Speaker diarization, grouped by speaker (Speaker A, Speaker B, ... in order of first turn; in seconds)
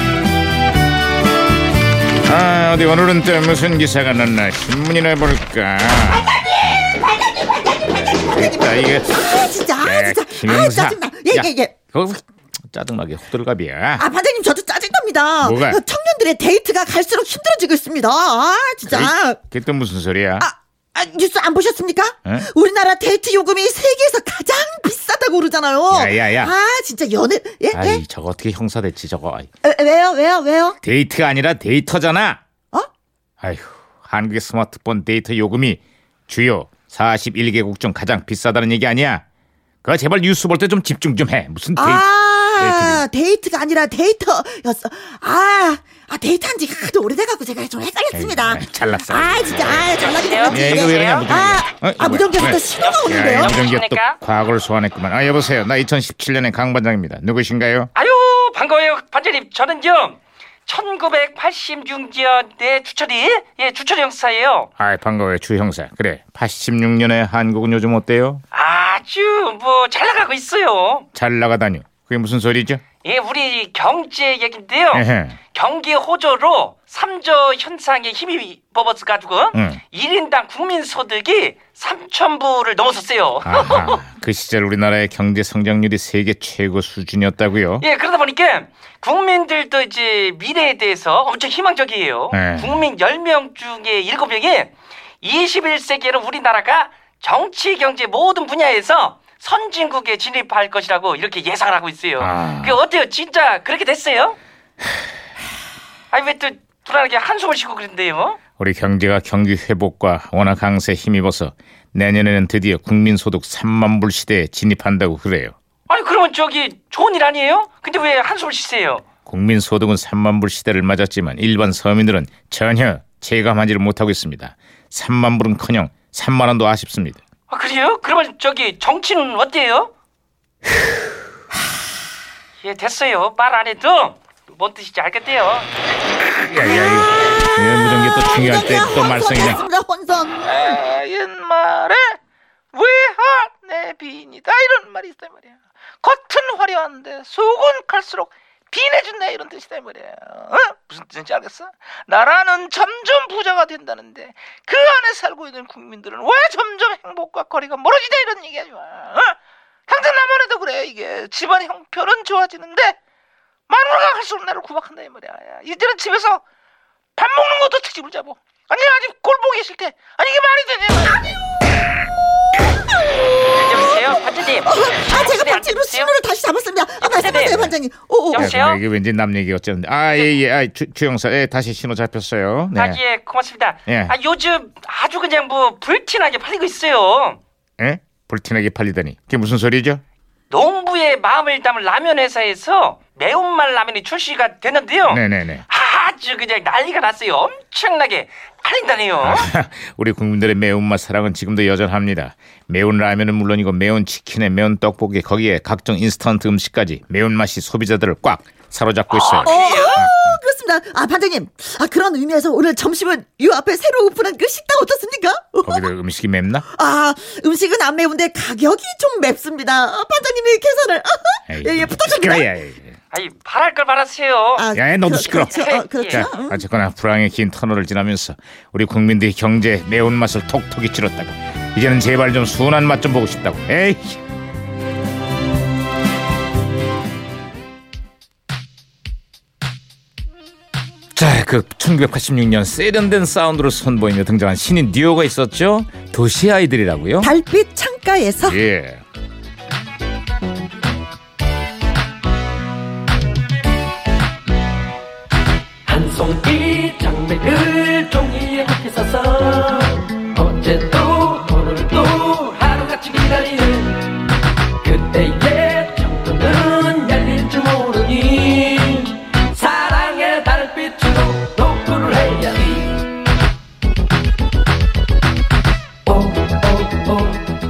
Speaker A: 2.2-6.3, 7.8-9.2, 9.8-14.0, 15.4-15.8, 18.9-20.5, 25.9-26.5, 27.7-29.5, 30.8-32.4, 33.4-39.2, 39.8-43.0, 48.1-57.9, 64.8-68.4, 71.1-72.8, 74.9-75.4, 79.5-79.8, 83.5-87.8, 92.3-92.8, 102.2-102.8, 108.6-115.5, 119.3-127.2, 136.4-139.6, 177.4-177.7, 178.3-183.0, 183.9-184.1, 187.8-190.0, 195.1-195.6, 199.2-210.4, 215.6-216.7, 221.5-223.0, 224.7-234.2, 241.1-247.3, 248.4-249.0
Speaker B: 8.0-11.8, 14.0-19.5, 20.4-28.0, 29.6-30.8, 41.8-53.5, 136.6-140.7, 174.6-178.5, 209.4-215.9, 216.7-222.5, 224.6-226.6, 247.2-248.6
Speaker C: 49.9-51.5, 52.8-54.2, 58.0-64.7, 68.5-71.1, 73.0-84.0, 87.8-104.4, 106.1-108.4, 115.9-119.0, 127.5-129.9, 132.6-135.7, 173.5-176.2, 177.0-177.7, 178.3-178.8, 182.7-187.4, 190.5-199.5, 209.1-210.1, 223.1-226.3, 262.4-262.9
Speaker D: 140.5-142.1, 142.7-145.5, 146.0-159.3, 159.9-162.9, 163.7-166.4, 167.2-171.3
Speaker E: 257.1-257.4, 260.4-262.1, 264.9-268.2, 270.4-271.1, 271.6-272.4, 276.1-277.3